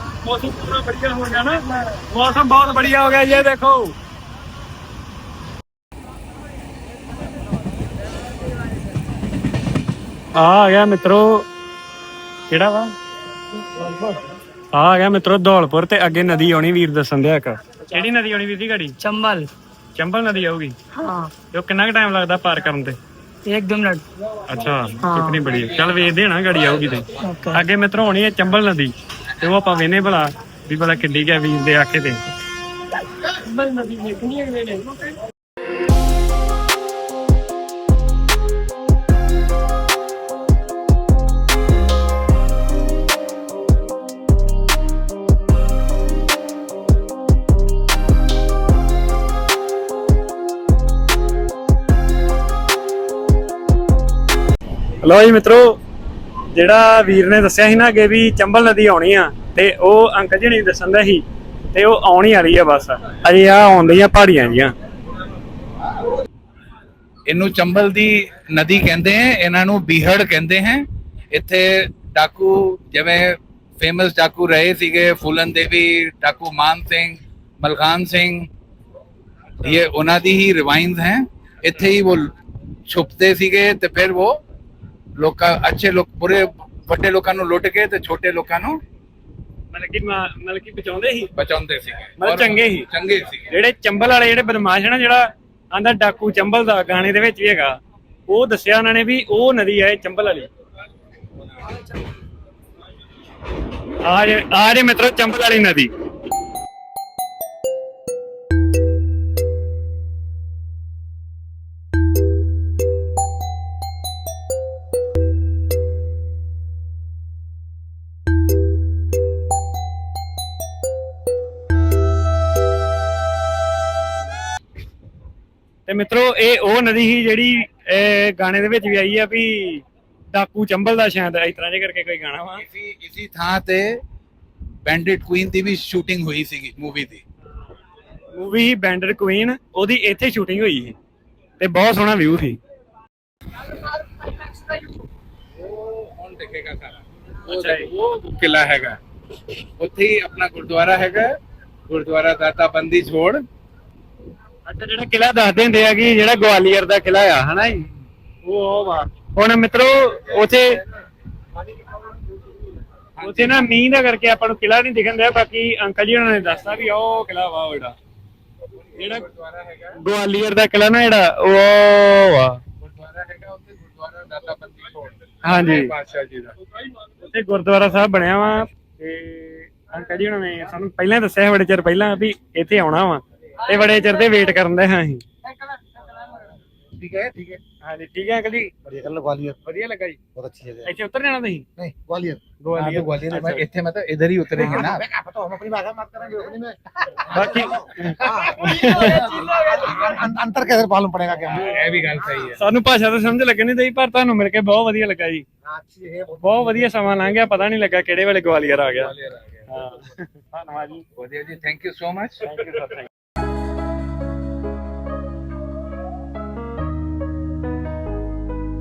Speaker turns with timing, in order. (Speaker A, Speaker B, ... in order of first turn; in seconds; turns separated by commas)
Speaker A: 0.2-3.9, Speaker A: 10.3-11.4, Speaker A: 12.5-12.9, Speaker A: 14.7-19.0, Speaker B: 19.0-19.5, Speaker A: 19.9-20.8, Speaker B: 20.9-21.3, Speaker A: 21.4-23.0, Speaker B: 23.5-24.0, Speaker A: 24.5-32.2, Speaker B: 25.0-25.4, Speaker B: 27.2-27.6, Speaker A: 33.4-35.1, Speaker A: 55.0-55.8, Speaker A: 56.5-64.7, Speaker C: 67.2-78.5, Speaker C: 79.6-82.3, Speaker C: 82.9-84.4, Speaker C: 85.2-88.8, Speaker A: 89.7-91.3, Speaker C: 91.3-93.5, Speaker A: 92.2-92.9, Speaker A: 93.5-97.7, Speaker A: 98.3-100.5, Speaker A: 104.1-105.9, Speaker A: 125.9-132.6, Speaker C: 132.7-134.0, Speaker C: 134.8-137.2, Speaker A: 138.3-140.9, Speaker A: 141.6-142.6, Speaker C: 145.6-149.0, Speaker A: 147.5-147.9, Speaker C: 149.8-151.3, Speaker C: 151.9-153.4, Speaker A: 154.7-157.8, Speaker A: 158.4-160.7, Speaker C: 163.2-163.6, Speaker A: 163.2-167.9, Speaker A: 168.9-169.2, Speaker C: 169.4-169.9, Speaker A: 169.9-172.6, Speaker C: 172.8-176.6, Speaker A: 175.4-175.9, Speaker A: 177.2-185.2, Speaker D: 187.0-187.6, Speaker A: 187.8-188.7, Speaker D: 188.8-189.6, Speaker A: 189.7-190.2, Speaker D: 190.3-190.9, Speaker A: 190.8-191.6, Speaker D: 191.8-193.6, Speaker A: 192.7-193.6, Speaker C: 192.9-195.0, Speaker D: 194.7-196.7, Speaker A: 197.3-199.4, Speaker D: 199.6-201.6, Speaker C: 201.5-202.6, Speaker A: 202.6-205.4, Speaker D: 205.9-206.2, Speaker A: 206.4-209.1, Speaker C: 209.2-209.5, Speaker A: 209.7-211.0, Speaker C: 211.2-212.5, Speaker A: 212.4-213.0